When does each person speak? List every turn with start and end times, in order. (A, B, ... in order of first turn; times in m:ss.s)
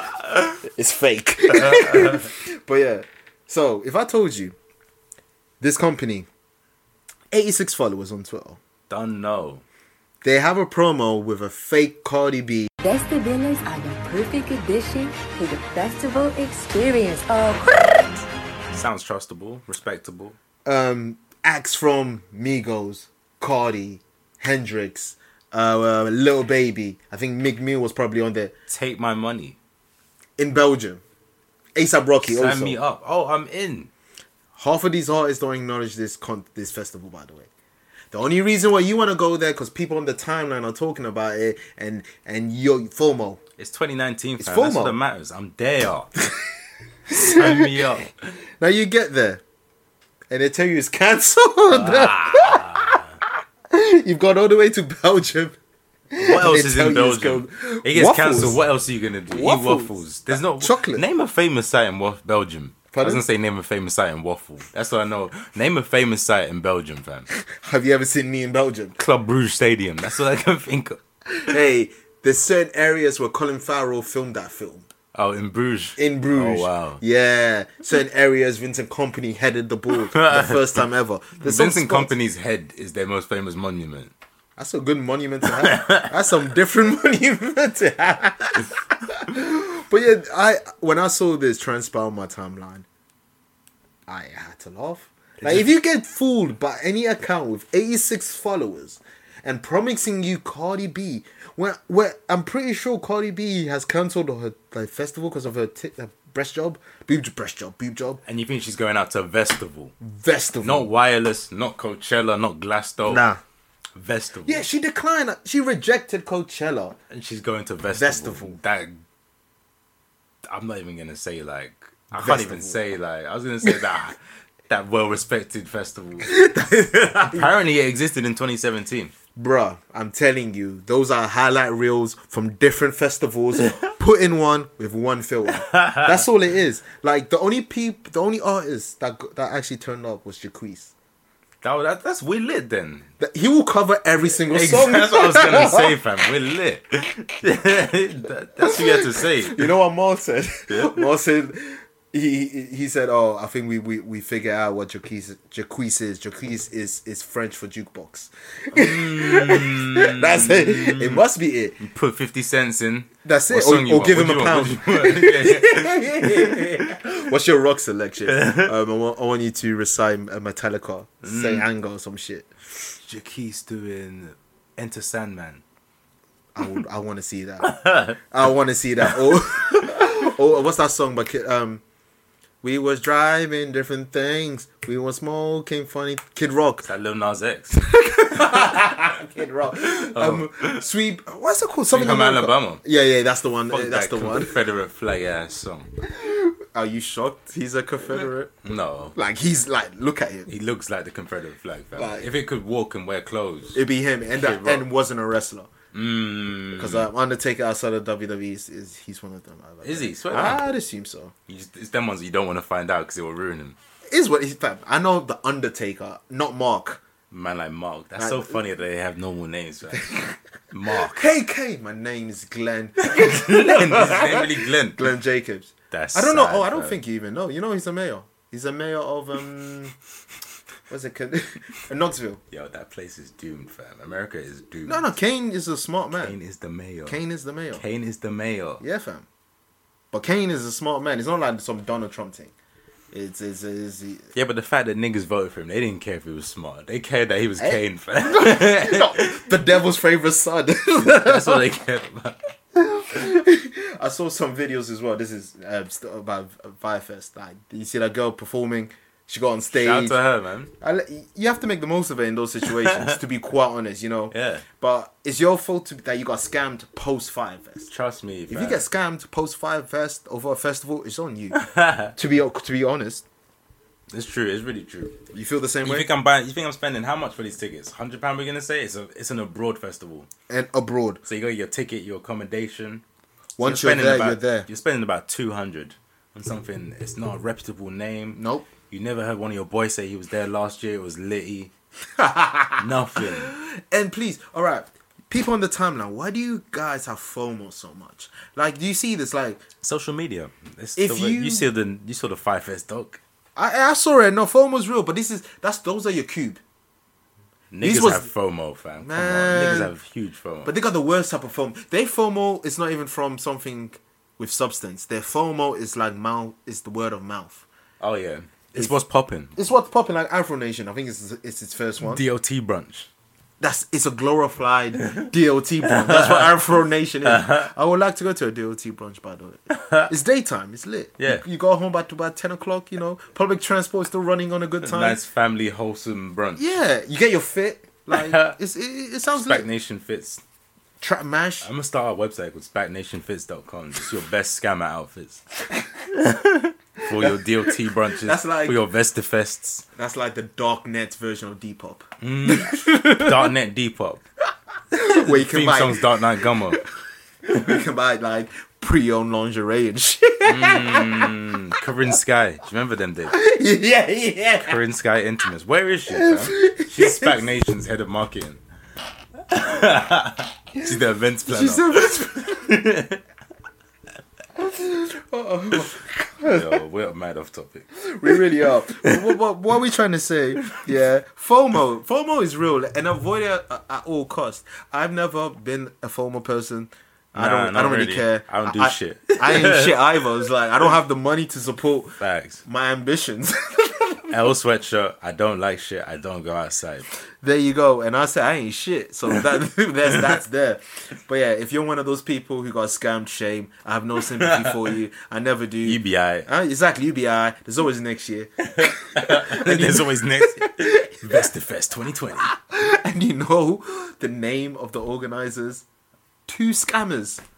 0:00.6-0:04.5 A
0:01.5-0:02.3 B
0:05.6-0:06.3 A
0:07.3-0:08.6 A
0:08.9-0:09.6 B
0:10.2-0:12.7 A
0:12.8-0:18.3 C
0:18.7-0:20.4 B
0:20.6-0:28.5 A
0:28.7-0:29.6 B
0:30.4-0:31.0 A
0:31.8-0:32.8 A
0:32.2-0:33.9 B
0:34.6-0:37.5 A
0:38.1-0:43.4 A
0:43.6-0:46.1 B
0:44.4-0:45.0 A
0:47.1-0:47.8 A
0:47.1-0:48.1 B
0:48.6-0:49.4 A
0:50.3-0:53.0 A
0:51.7-0:53.1 B
0:53.7-0:55.6 A
0:56.1-0:58.6 A
0:56.2-1:07.3 B
0:59.3-1:01.0 A
1:02.9-1:03.2 A
1:07.5-1:09.0 A
1:09.0-1:11.0 B
1:11.3-1:14.9 A
1:15.1-1:17.0 B
1:16.0-1:22.1 A
1:20.1-1:20.8 B
1:21.4-1:24.1 B
1:24.6-1:32.8 A
1:25.4-1:26.1 B
1:34.1-1:48.2 A
1:48.2-1:49.9 B
1:50.0-1:50.9 A
1:50.6-1:53.2 B
1:53.0-1:53.4 A
1:54.0-1:54.6 B
1:54.4-1:57.0 A
1:57.1-1:59.0 B
1:57.9-1:58.6 A
2:00.5-2:09.1 B
2:02.1-2:02.8 A
2:06.2-2:07.5 A
2:09.4-2:20.9 A
2:15.5-2:16.2 B
2:21.6-2:23.1 B
2:23.2-2:26.0 A
2:24.5-2:29.7 B
2:28.6-2:41.8 A
2:30.7-2:31.0 B
2:38.7-2:41.2 B
2:41.8-2:46.9 B
2:43.2-2:52.5 A
2:48.2-2:48.7 B
2:51.2-2:51.7 B
2:53.0-2:55.6 B
2:56.6-3:01.8 A
2:57.6-2:58.2 B
3:02.6-3:06.8 A
3:06.8-3:09.1 B
3:07.8-3:14.6 A
3:09.8-3:10.8 B
3:11.9-3:12.8 B
3:13.7-3:15.9 B
3:16.0-3:18.6 A
3:18.6-3:19.2 B
3:19.1-3:20.5 A
3:20.5-3:23.8 B
3:22.0-3:22.3 A
3:23.7-3:25.7 A
3:24.3-3:24.8 B
3:25.9-3:27.1 B
3:26.8-3:31.3 A
3:29.8-3:30.6 B
3:31.5-3:33.8 B
3:34.1-3:37.0 A
3:37.3-3:40.1 B
3:38.2-3:38.6 A
3:39.9-3:40.4 A
3:40.7-3:41.2 B
3:41.0-3:49.9 A
3:43.0-3:45.1 B
3:45.9-3:47.0 B
3:50.9-3:52.4 A
3:52.5-3:55.0 B
3:54.8-3:56.4 A
3:56.2-3:57.2 B
3:57.0-3:57.8 A
3:57.7-3:58.8 B
3:58.8-3:59.2 A
4:00.1-4:02.5 A
4:03.1-4:04.3 A
4:04.3-4:09.5 B
4:07.6-4:11.6 A
4:11.0-4:12.5 B
4:12.7-4:20.2 A
4:19.7-4:20.7 B
4:20.8-4:27.9 A
4:22.6-4:23.2 B
4:24.3-4:24.6 B
4:27.9-4:28.8 B
4:28.5-4:31.6 A
4:31.5-4:32.1 B
4:32.1-4:33.2 A
4:34.1-4:35.2 B
4:35.3-4:36.1 A
4:35.8-4:40.3 B
4:40.5-4:41.2 A
4:41.2-4:43.0 B
4:43.6-4:44.7 A
4:43.6-4:51.7 B
4:48.4-4:48.7 A
4:52.2-4:59.6 A
4:52.8-4:53.5 B
4:59.8-5:03.2 B
5:01.0-5:01.6 A
5:03.6-5:06.6 A
5:07.7-5:10.7 B
5:07.8-5:08.3 A
5:09.0-5:09.9 A
5:10.6-5:17.6 A
5:18.0-5:19.5 B
5:19.6-5:22.2 A
5:22.0-5:23.1 B
5:23.6-5:35.2 A
5:25.8-5:26.6 B
5:27.2-5:27.7 B
5:29.7-5:30.1 B
5:31.2-5:31.4 B
5:34.8-5:36.7 B
5:36.6-5:39.6 A
5:38.1-5:38.6 B
5:39.3-5:40.4 B
5:41.0-5:41.7 A
5:41.6-5:45.4 B
5:46.2-5:49.8 B
5:47.1-5:48.8 A
5:50.0-5:53.5 A
5:52.2-5:54.2 B
5:54.9-5:56.8 A
5:55.0-5:56.8 B
5:57.4-6:01.3 A
6:00.4-6:03.4 B
6:03.3-6:04.8 A
6:04.6-6:08.6 B
6:06.1-6:07.4 A
6:09.5-6:13.2 B
6:11.5-6:12.7 A
6:14.6-6:16.8 A
6:16.4-6:18.4 B
6:18.0-6:34.3 A
6:18.9-6:19.3 B
6:27.3-6:30.4 B
6:32.2-6:32.6 B
6:34.3-6:37.1 B
6:37.4-6:51.5 A
6:44.4-6:44.9 B
6:45.8-6:46.5 B
6:48.7-6:52.5 B
6:52.4-6:55.8 A
6:56.5-6:57.4 A